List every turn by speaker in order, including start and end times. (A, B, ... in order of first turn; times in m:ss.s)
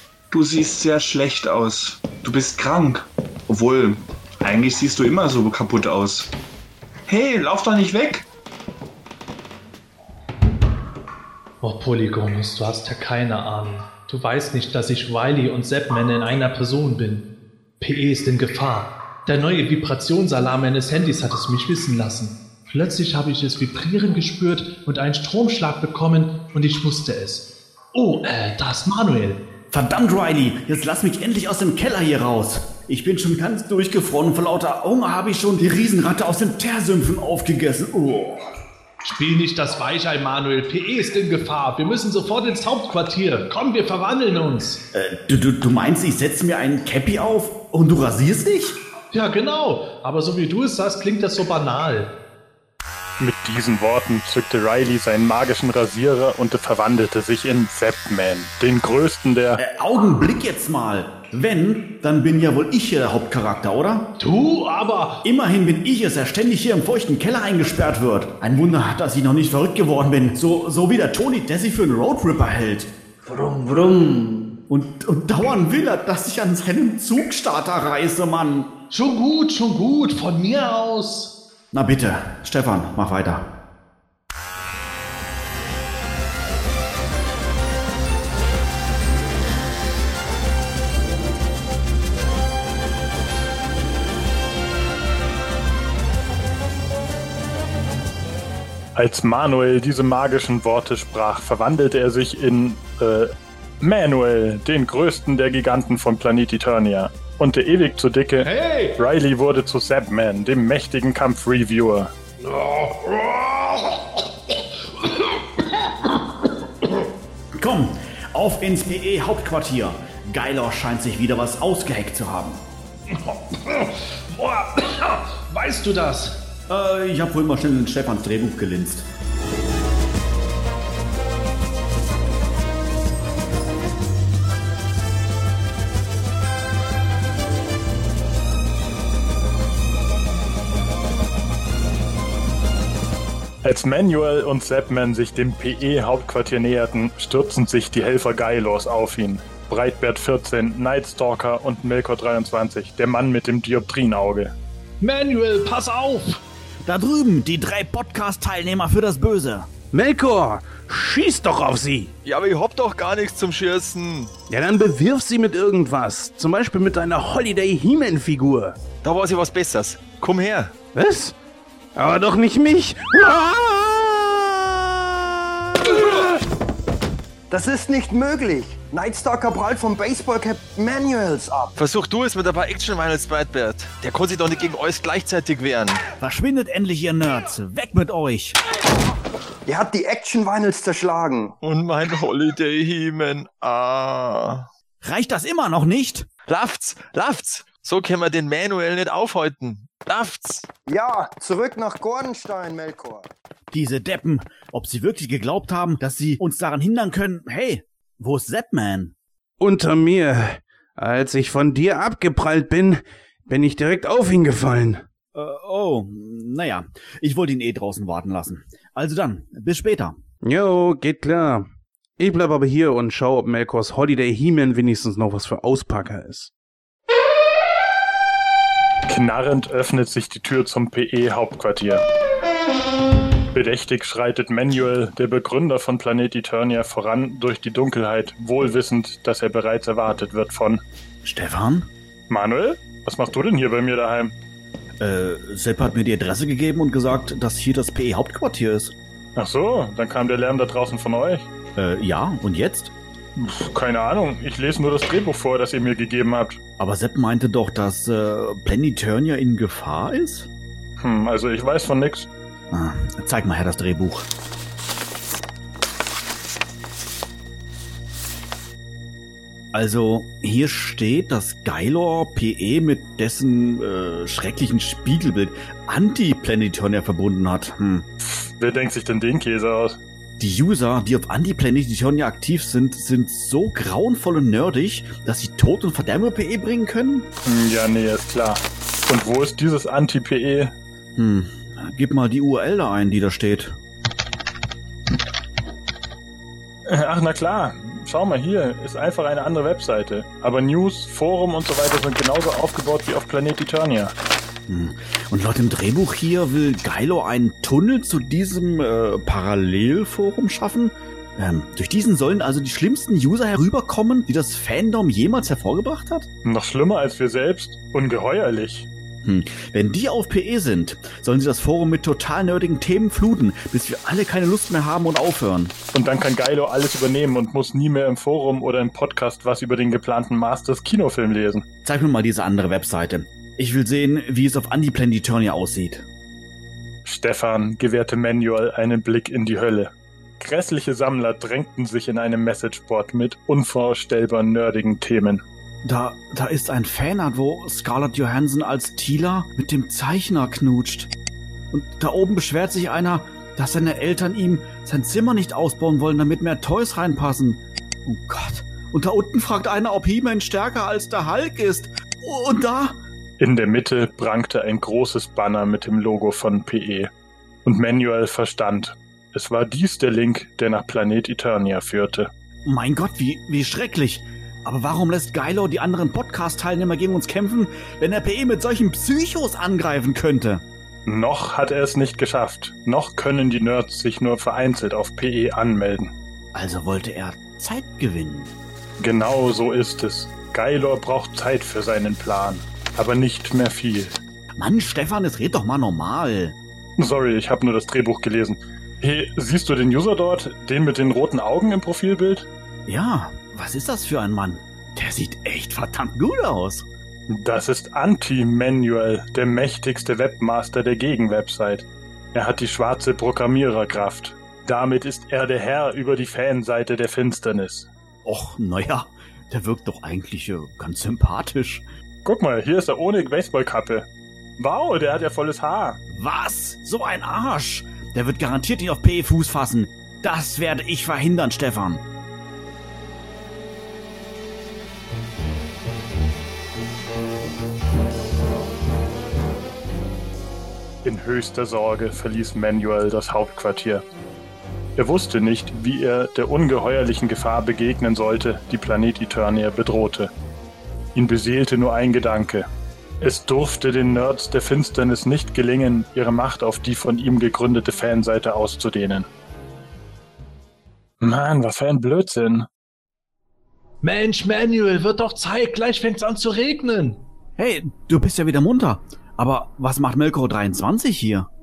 0:00.3-0:06.3 A
0:07.1-0:08.2 A
0:11.6-0:17.3 B
0:17.8-0:29.4 B
0:29.7-0:38.5 C
0:39.0-0:44.8 B
0:44.9-0:48.8 C
0:49.1-0:52.1 B
0:53.2-0:59.6 D
0:59.6-1:04.1 C
1:04.2-1:05.2 B
1:05.2-1:12.9 C
1:14.7-1:18.7 C
1:18.9-1:21.3 B
1:21.7-1:23.4 C
1:39.0-1:52.1 D
1:48.4-1:49.0 B
1:52.4-1:54.2 B
1:54.9-1:56.1 B
1:57.5-2:02.6 C
2:03.1-2:06.4 B
2:06.7-2:09.1 C
2:23.6-2:34.5 D
2:35.0-2:36.4 B
2:36.8-2:39.7 C
2:39.9-2:42.1 E
2:42.2-2:44.3 F
2:44.5-2:48.8 E
2:49.0-2:50.7 F
2:50.9-2:51.3 E
2:51.9-2:56.0 E
2:57.5-3:01.8 G
3:01.8-3:06.0 F
3:06.2-3:08.6 C
3:09.7-3:11.6 G
3:11.6-3:14.7 F
3:15.0-3:16.3 C
3:16.5-3:20.7 F
3:20.9-3:23.3 G
3:23.7-3:29.2 C
3:29.6-3:35.1 E
3:35.3-3:40.2 C
3:40.4-3:41.7 E
3:42.2-3:46.5 E
3:49.1-3:52.0 D
3:53.5-4:00.8 D
4:01.2-4:01.9 C
4:02.3-4:04.3 D
4:05.0-4:08.9 C
4:09.4-4:11.5 D
4:11.8-4:12.9 C
4:13.4-4:16.6 D
4:16.8-4:20.5 C
4:21.0-4:22.3 D
4:22.7-4:24.3 C
4:29.7-4:38.1 C
4:38.2-4:40.0 D
4:40.4-4:47.3 C
4:47.4-4:50.7 D
4:51.2-4:53.7 C
4:56.9-5:04.1 D
5:04.7-5:16.3 C
5:16.4-5:18.9 D
5:19.2-5:25.7 C
5:25.9-5:31.6 D
5:31.8-5:36.0 C
5:37.0-5:45.4 D
5:45.8-5:51.1 C
5:51.7-6:03.0 C
6:03.4-6:07.1 D
6:07.6-6:12.3 D
6:12.6-6:20.6 C
6:21.1-6:26.1 D
6:26.5-6:28.5 C
6:29.0-6:34.2 D
6:34.6-6:36.6 C
6:37.0-6:42.5 D
6:42.9-6:46.8 C
6:47.3-6:57.9 D
6:58.2-7:01.8 C
7:02.2-7:04.1 D
7:04.6-7:06.0 D
7:06.1-7:12.0 C
7:21.0-7:24.0 D
7:25.0-7:30.3 D
7:31.2-7:32.7 D
7:33.2-7:39.3 D
7:41.2-7:42.7 D
7:44.0-7:47.2 B
7:47.6-7:51.5 C